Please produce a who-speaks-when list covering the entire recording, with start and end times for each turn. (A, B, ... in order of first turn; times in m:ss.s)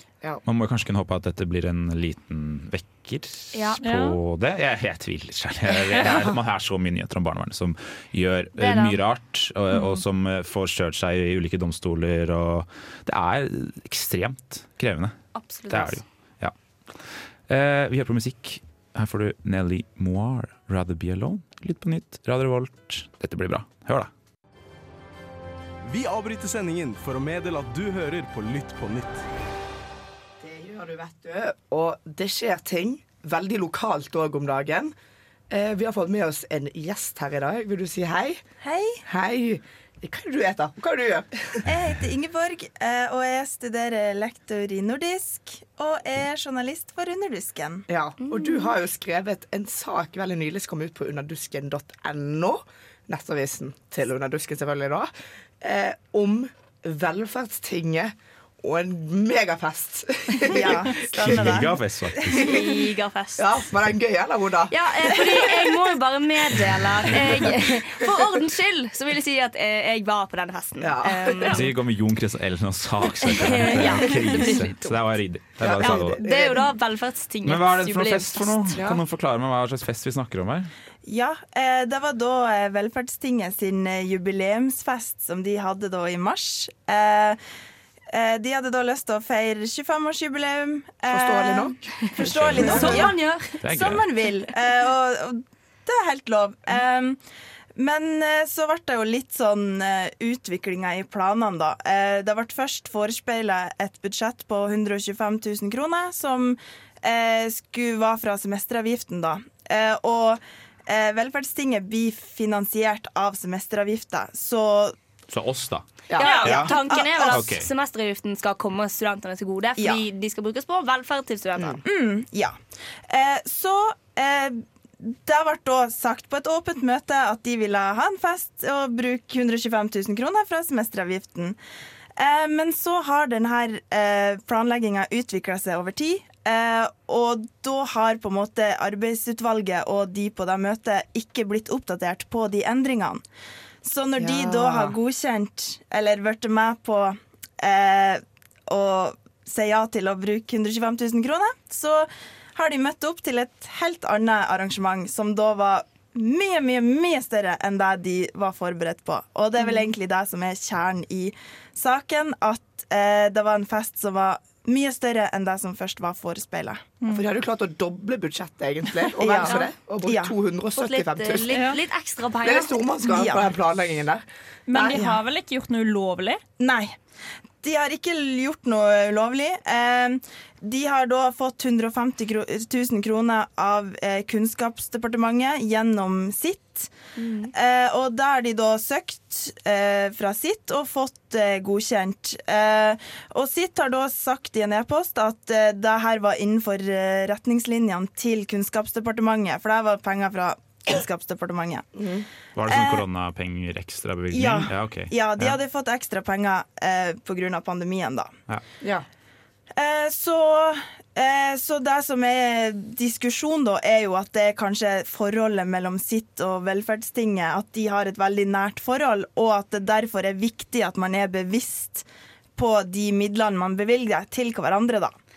0:00.4-0:15.2 A
0:03.5-0:03.8 B
0:03.8-0:04.2 C
0:08.6-0:09.0 B
0:15.4-0:16.0 B
0:15.7-0:24.1 A
0:25.9-0:29.2 D
0:30.4-0:34.9 E
0:35.5-0:38.4 E
0:38.6-0:39.0 F
0:39.1-0:41.7 E
0:41.6-0:47.9 F
0:47.9-1:01.5 E
0:48.2-0:48.7 B
1:00.4-1:02.5 F
1:01.2-1:02.3 A
1:02.3-1:04.9 E
1:02.3-1:03.6 B
1:04.7-1:11.6 B
1:10.8-1:11.6 E
1:11.5-1:16.2 A
1:13.2-1:14.7 B
1:14.2-1:14.6 E
1:15.6-1:16.7 E
1:15.8-1:18.8 B
1:17.4-1:20.7 A
1:21.0-1:27.4 F
1:28.1-1:37.2 F
1:31.1-1:33.0 E
1:32.2-1:32.9 A
1:32.6-1:33.6 B
1:33.6-1:34.0 A
1:37.8-1:55.0 F
1:55.3-1:55.9 A
1:56.1-1:56.4 E
1:56.2-2:01.8 B
1:56.2-1:57.5 F
1:56.4-1:57.7 A
2:01.8-2:02.6 F
2:03.1-2:11.6 F
2:12.2-2:23.2 F
2:23.8-2:46.8 F
2:24.2-2:25.0 E
2:47.1-2:51.6 E
2:49.2-2:50.3 F
2:49.4-2:49.7 B
2:50.8-2:53.2 B
2:51.5-2:51.8 C
2:52.4-2:55.0 E
2:53.1-2:53.5 F
2:54.7-2:56.4 C
2:54.9-2:55.2 F
2:56.6-2:57.0 F
2:57.6-3:06.9 F
3:07.2-3:07.5 B
3:07.5-3:21.9 F
3:22.0-3:22.2 E
3:22.5-3:25.6 A
3:22.7-3:23.0 F
3:24.3-3:28.3 F
3:29.8-3:42.0 F
3:42.6-3:45.1 F